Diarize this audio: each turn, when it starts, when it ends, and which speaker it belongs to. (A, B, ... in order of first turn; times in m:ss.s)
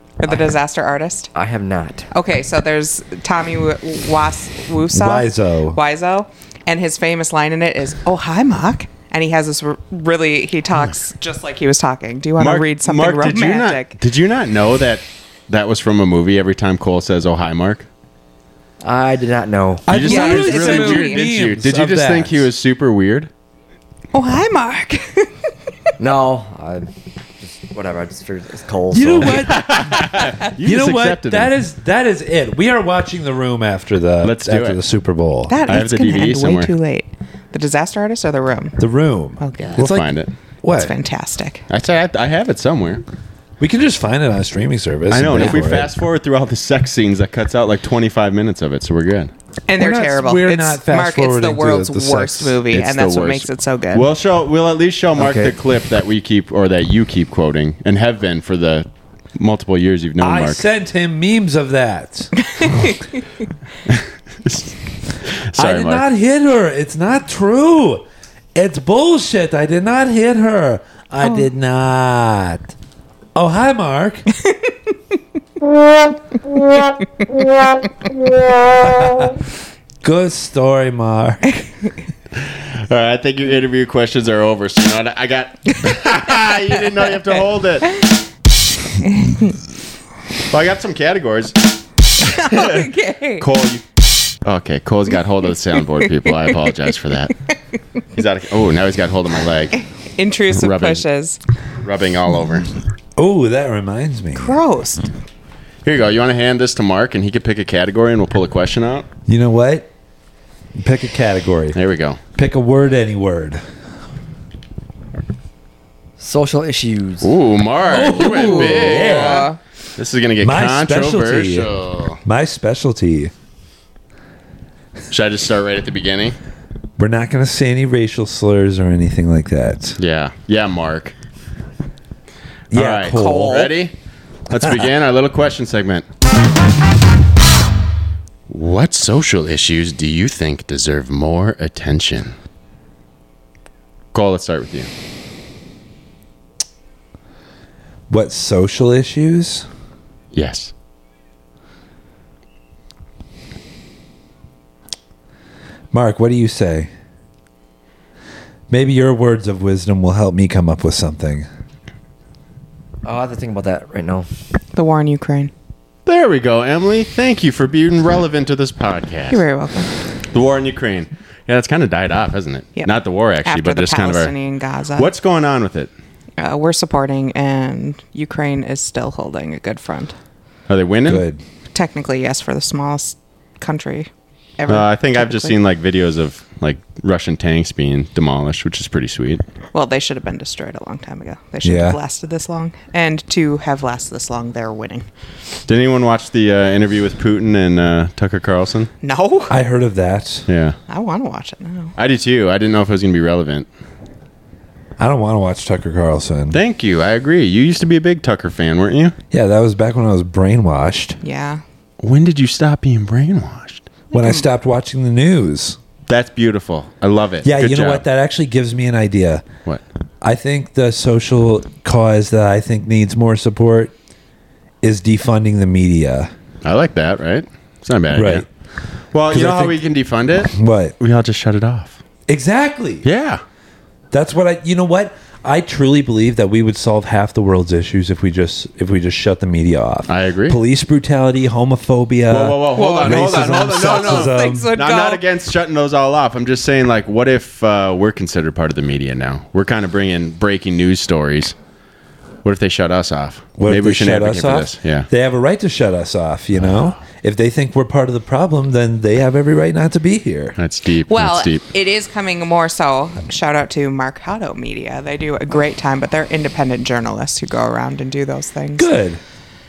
0:00.2-0:01.3 A
0:01.3-0:02.1 B
0:02.1-0:14.0 A
0:04.9-0:05.8 C
0:12.4-0:17.9 D
0:18.8-0:19.9 B
0:19.9-0:22.5 C
0:19.9-0:23.3 D
0:20.0-0:21.2 A
0:24.1-0:25.5 A
0:26.0-0:26.9 B
0:27.4-0:29.6 B
0:28.9-0:35.6 C
0:29.3-0:31.5 D
0:34.2-0:34.8 D
0:35.5-0:38.8 A
0:35.7-0:36.7 D
0:38.8-0:40.1 C
0:39.4-0:39.9 A
0:39.8-0:40.3 D
0:40.6-0:40.9 C
0:40.8-0:41.6 A
0:41.7-0:43.0 D
0:43.6-0:45.9 C
0:45.1-0:49.3 D
0:49.7-0:54.1 A
0:49.8-0:52.6 C
0:52.7-1:00.6 D
0:55.2-0:55.6 B
1:00.2-1:02.3 C
1:02.6-1:02.9 A
1:03.9-1:06.0 D
1:05.6-1:12.7 C
1:13.4-1:14.3 C
1:18.8-1:19.4 C
1:20.0-1:21.7 C
1:22.5-1:27.9 D
1:29.0-1:29.6 A
1:30.5-1:31.6 D
1:32.3-1:33.4 A
1:32.3-1:33.8 D
1:34.4-1:37.4 D
1:38.2-1:39.8 D
1:39.8-1:41.4 A
1:40.5-1:41.0 D
1:41.8-1:42.7 D
1:43.2-1:44.6 C
1:44.4-1:45.1 A
1:45.8-1:49.1 D
1:49.3-1:49.9 C
1:50.8-1:51.8 C
1:51.8-1:52.2 D
1:52.4-1:53.6 C
1:56.2-1:57.3 B
1:57.2-2:02.2 D
1:57.9-1:59.5 C
1:58.1-1:59.6 A
2:00.4-2:01.7 C
2:02.2-2:03.3 C
2:05.1-2:06.4 D
2:07.0-2:10.0 C
2:10.0-2:11.1 D
2:12.7-2:13.9 D
2:12.7-2:13.6 C
2:13.1-2:13.7 A
2:14.5-2:16.0 D
2:18.5-2:22.4 D
2:24.1-2:24.9 D
2:28.1-2:29.7 C
2:30.3-2:30.7 D
2:35.9-2:36.9 C
2:38.7-2:41.5 C
2:43.0-2:44.3 B
2:44.7-2:45.5 A
2:46.1-2:49.4 D
2:49.3-2:49.9 A
2:50.3-2:54.4 D
2:52.8-2:55.1 A
2:55.0-2:55.9 D
2:56.4-3:00.2 A
3:00.7-3:01.3 D
3:01.1-3:01.4 C
3:01.7-3:05.6 A
3:04.7-3:09.4 D
3:09.7-3:15.1 A
3:11.6-3:12.0 C
3:15.7-3:18.9 D
3:19.0-3:19.6 A
3:19.5-3:20.5 C
3:20.5-3:20.8 D
3:20.9-3:21.9 A
3:22.0-3:23.7 D
3:25.0-3:26.6 C
3:26.5-3:29.2 D
3:29.3-3:31.2 C
3:31.2-3:31.6 A
3:32.0-3:33.9 D
3:34.1-3:34.5 A
3:34.1-3:35.8 C
3:36.1-3:38.0 D
3:37.4-3:39.4 C
3:40.2-3:43.9 C
3:44.8-3:46.3 C
3:46.6-3:48.5 D
3:48.1-3:48.5 C
3:49.1-3:52.0 D
3:49.3-3:49.8 C
3:50.4-3:51.0 C
3:52.3-3:53.1 C
3:53.0-3:53.4 D
3:54.1-4:04.7 C
4:00.1-4:00.6 D
4:02.3-4:11.6 D
4:02.8-4:05.2 A
4:12.4-4:15.1 D
4:13.6-4:20.6 C
4:20.6-4:21.6 D
4:21.1-4:28.9 A
4:28.8-4:29.2 C